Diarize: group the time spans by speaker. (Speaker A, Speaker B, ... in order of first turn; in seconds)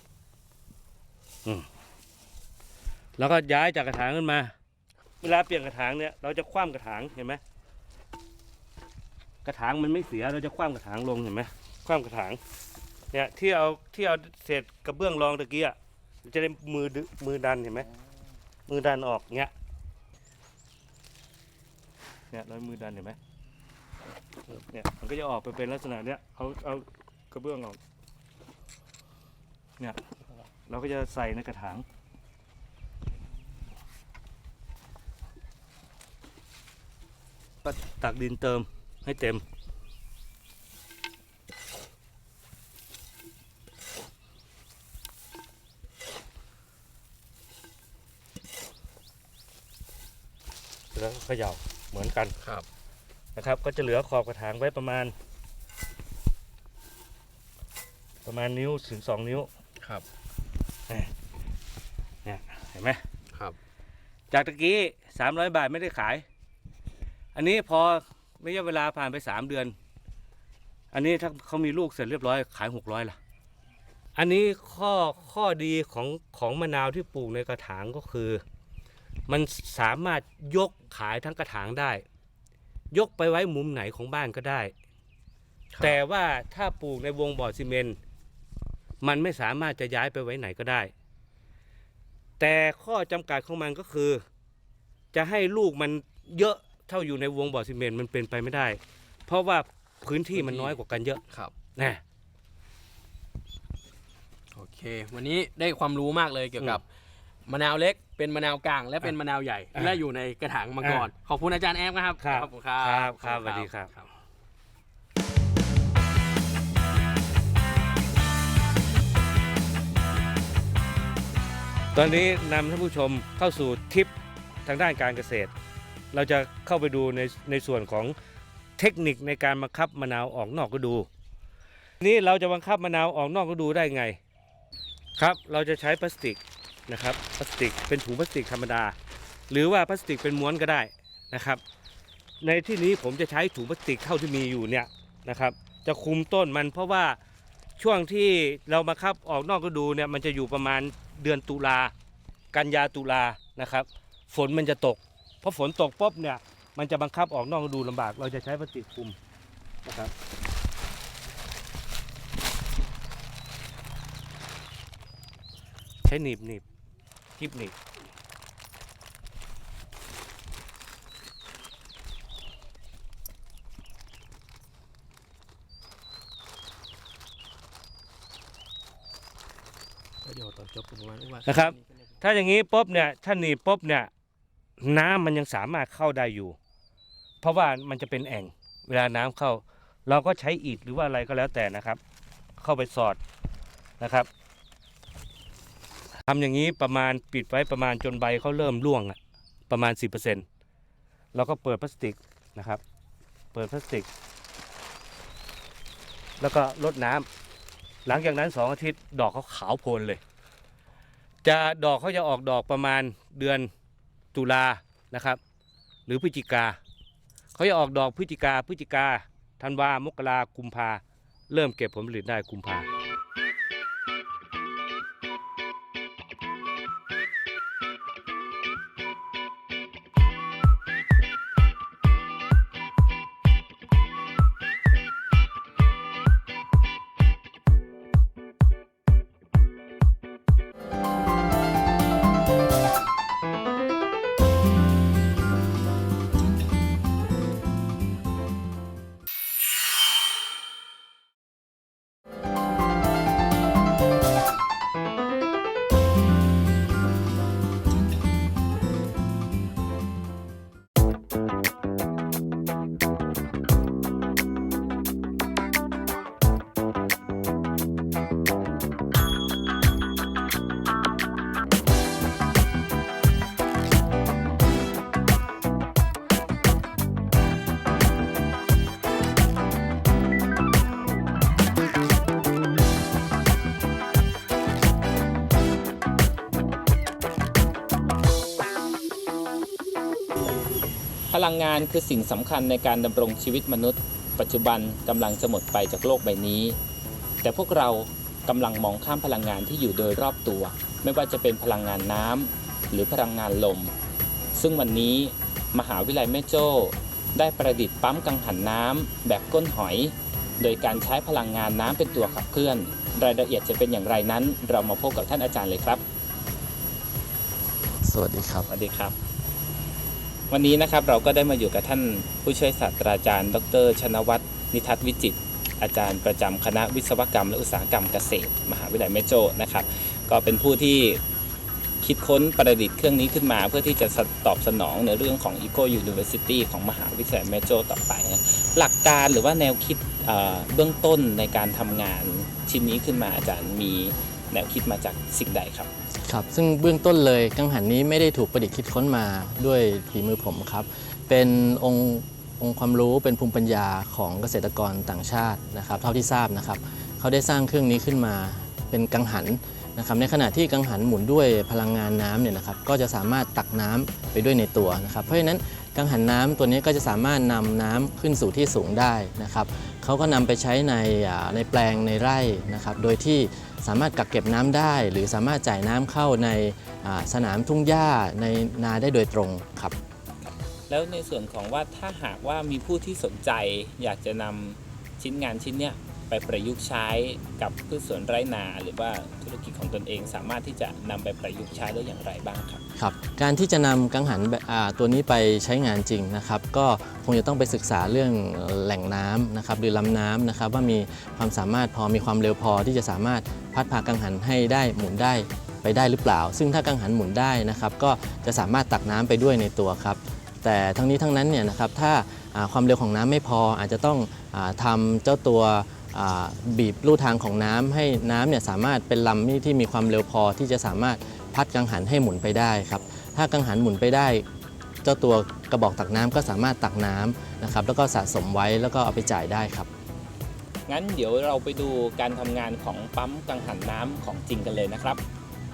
Speaker A: 3.2-4.5, 5.2-7.4, 9.4-12.4, 13.1-17.9, 18.7-19.5, 22.3-23.2, 24.5-27.8, 30.7-31.8, 37.6-39.4, 50.9-52.4, 53.4-55.1, 58.2-59.5, 62.2-63.0, 64.3-66.2, 67.3-69.7, 70.9-73.2, 74.2-78.4, 79.3-82.0, 82.9-84.7, 85.8-88.0, 89.0-90.9, 92.4-94.2, 95.1-101.2, 101.8-102.0, 110.8-111.1, 112.2-113.9, 121.9-124.1, 124.7-125.5, 126.1-128.1, 128.8-131.1, 132.0-134.2, 135.2-138.9, 139.5-141.6, 142.4-147.2, 147.8-151.9, 152.5-159.1, 159.8-160.1, 166.0-166.6, 167.4-167.8, 181.4-184.1, 184.8-186.6, 187.4-192.0, 192.6-193.2, 194.0-194.3, 196.3-199.2, 199.7-200.4, 201.3-202.8, 203.5-204.1, 206.4-207.2, 208.1-210.2, 211.4-213.7, 214.3-215.4, 216.1-216.8, 217.6-222.9
Speaker B: 85.7-86.0, 100.3-100.8, 104.5-106.8, 107.5-114.0, 180.2-181.8
Speaker C: 291.3-296.8, 297.4-303.9, 304.6-316.0, 318.7-319.1, 320.5-331.2, 332.0-345.9, 380.9-392.8, 430.9-435.2
Speaker D: 318.0-318.7, 346.2-379.9, 392.9-424.4, 425.0-429.9